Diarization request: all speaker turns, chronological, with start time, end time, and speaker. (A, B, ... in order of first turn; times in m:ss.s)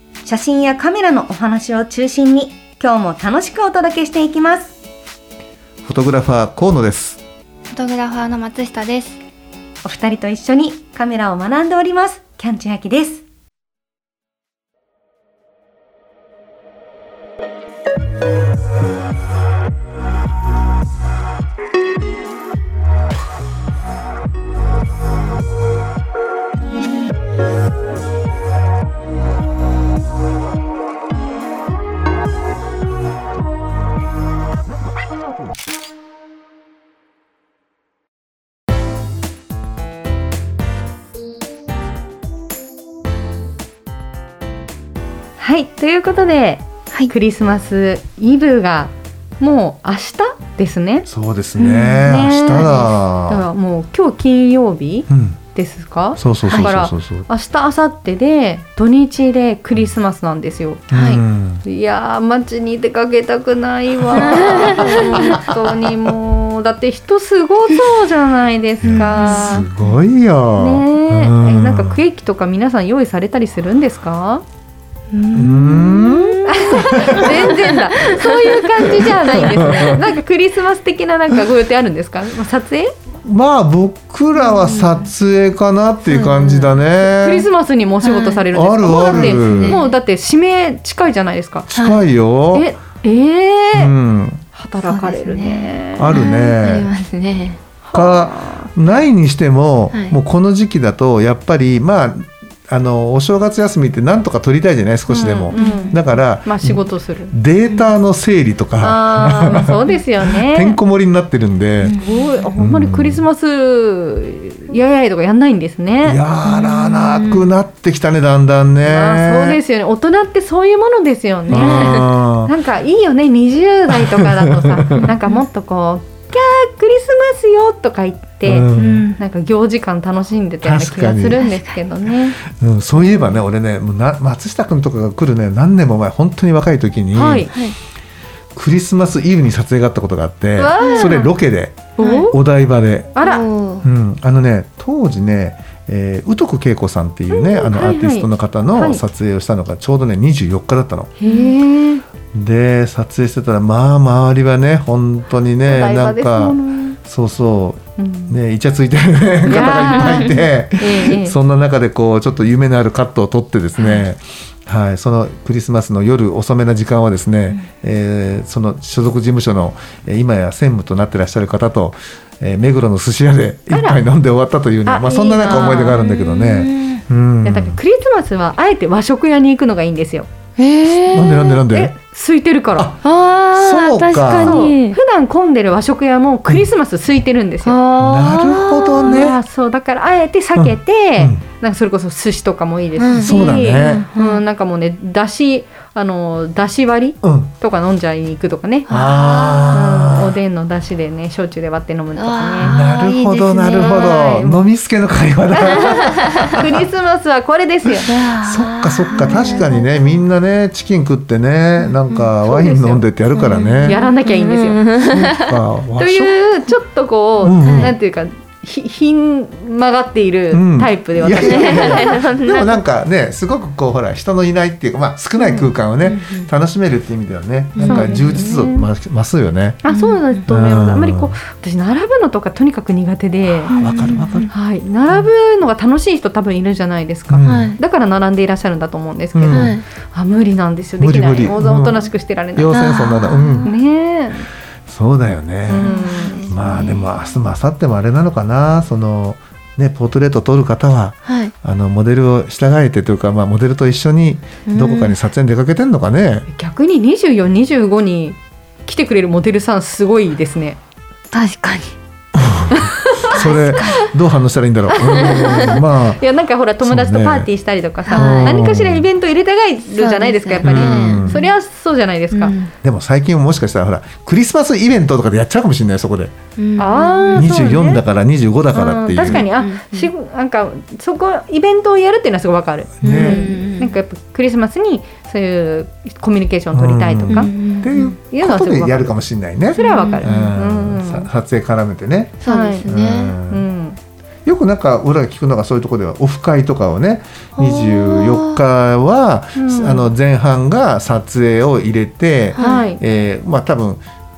0:00.2-0:04.8 A
0:05.8-0:07.2 B
0:07.7-0:09.2 C
0:09.8-0:13.2 A
0:45.4-0:51.1 A
0:51.1-0:53.4 B
0:51.6-0:52.1 C
0:52.0-1:00.9 A
0:55.1-0:55.4 B
0:56.2-0:57.3 B
1:00.9-1:01.2 C
1:00.9-1:01.6 B
1:01.6-1:09.7 A
1:04.2-1:05.4 C
1:04.3-1:05.4 B
1:08.8-1:12.0 B
1:08.9-1:09.7 C
1:10.6-1:14.4 A
1:15.1-1:19.0 C
1:15.4-1:17.4 B
1:16.5-1:22.9 A
1:19.0-1:20.0 B
1:23.2-1:27.5 B
1:24.4-1:25.1 C
1:26.1-1:26.8 C
1:27.0-1:31.7 A
1:28.0-1:29.9 C
1:28.5-1:29.9 B
1:31.7-1:32.7 B
1:31.7-1:32.0 C
1:32.5-1:33.9 A
1:33.7-1:34.4 B
1:34.5-1:36.2 A
1:34.8-1:37.6 C
1:36.0-1:36.9 B
1:37.8-1:38.8 A
1:37.9-1:52.0 B
1:39.9-1:40.2 C
1:45.1-1:46.0 C
1:45.5-1:47.3 A
1:47.7-1:47.9 C
1:48.8-1:50.8 A
1:51.8-1:52.5 C
1:52.0-1:56.2 A
1:52.6-1:53.2 B
1:56.0-1:59.6 B
1:56.4-1:57.5 C
1:58.8-2:12.4 A
2:01.5-2:02.0 C
2:01.5-2:02.5 B
2:04.2-2:05.1 B
2:05.0-2:05.4 C
2:08.4-2:09.1 B
2:08.7-2:09.2 C
2:10.6-2:11.4 B
2:11.4-2:11.7 C
2:12.4-2:17.6 B
2:12.9-2:13.4 A
2:17.1-2:17.5 A
2:18.6-2:23.2 B
2:20.6-2:21.3 A
2:20.8-2:21.2 C
2:22.0-2:22.4 A
2:22.0-2:22.3 C
2:23.2-2:23.4 A
2:23.2-2:23.9 C
2:23.8-2:31.1 B
2:27.3-2:29.0 A
2:31.2-2:32.0 A
2:31.2-2:31.6 C
2:32.3-2:57.8 B
2:35.6-2:37.0 A
2:38.0-2:38.4 A
2:39.5-2:41.4 A
2:39.5-2:40.5 C
2:43.8-2:44.1 C
2:53.7-2:54.0 A
2:54.8-2:56.0 A
2:55.6-2:57.0 C
2:57.4-3:00.3 A
3:00.6-3:01.6 C
3:01.1-3:01.9 B
3:01.7-3:02.9 A
3:03.0-3:05.0 C
3:03.5-3:04.6 B
3:04.3-3:07.8 A
3:07.6-3:09.3 C
3:08.0-3:09.4 B
3:09.0-3:18.9 A
3:10.6-3:11.4 B
3:13.0-3:14.4 C
3:13.1-3:14.1 B
3:17.2-3:17.5 B
3:18.9-3:19.9 C
3:18.9-3:20.4 B
3:19.7-3:22.8 A
3:22.2-3:24.2 C
3:22.6-3:26.8 B
3:23.7-3:24.7 A
3:25.5-3:28.1 A
3:26.1-3:26.4 C
3:28.0-3:30.2 C
3:28.4-3:34.0 B
3:29.1-3:29.7 A
3:32.1-3:32.3 C
3:32.4-3:33.0 A
3:33.3-3:35.6 C
3:33.8-3:34.8 A
3:35.0-3:36.4 B
3:36.0-3:42.2 A
3:37.4-3:38.0 B
3:37.6-3:38.0 C
3:40.5-3:49.8 B
3:41.4-3:42.8 C
3:45.4-3:45.7 A
3:46.0-3:46.5 C
3:47.8-3:48.2 C
3:47.8-3:48.9 A
3:49.8-3:53.8 A
3:49.9-3:50.4 C
3:50.5-3:51.4 B
3:53.7-3:54.5 C
3:53.7-3:54.5 B
3:54.5-4:02.8 A
3:57.3-3:57.7 B
3:57.5-3:57.8 C
3:59.4-3:59.8 B
3:59.5-3:59.8 C
4:01.0-4:03.7 B
4:02.7-4:03.8 C
4:03.6-4:04.5 A
4:04.9-4:16.5 B
4:05.7-4:06.5 A
4:05.8-4:07.1 C
4:11.3-4:11.5 C
4:14.7-4:15.2 C
4:16.5-4:20.8 A
4:21.3-4:22.0 C
4:22.4-4:26.2 B
4:22.7-4:23.6 A
4:23.3-4:24.1 C
4:24.9-4:32.6 A
4:25.2-4:25.8 C
4:26.8-4:27.5 B
4:28.1-4:28.6 C
4:28.1-4:29.1 B
4:29.9-4:31.5 C
4:30.6-4:31.4 B
4:32.3-4:32.7 C
4:32.8-4:36.3 B
4:36.6-4:37.8 C
4:36.8-4:38.0 A
4:37.3-4:39.5 B
4:38.7-4:47.5 A
4:39.3-4:40.1 C
4:43.0-4:43.4 B
4:43.0-4:44.0 C
4:46.7-4:53.6 B
4:47.3-4:48.2 C
4:48.2-4:49.2 A
4:49.7-4:51.3 A
4:49.8-4:50.3 C
4:52.4-4:53.4 C
4:52.5-4:52.9 A
4:53.5-4:54.0 A
4:54.4-5:04.0 B
4:57.6-4:58.6 C
4:59.6-5:00.1 A
5:02.6-5:02.8 C
5:02.6-5:03.0 A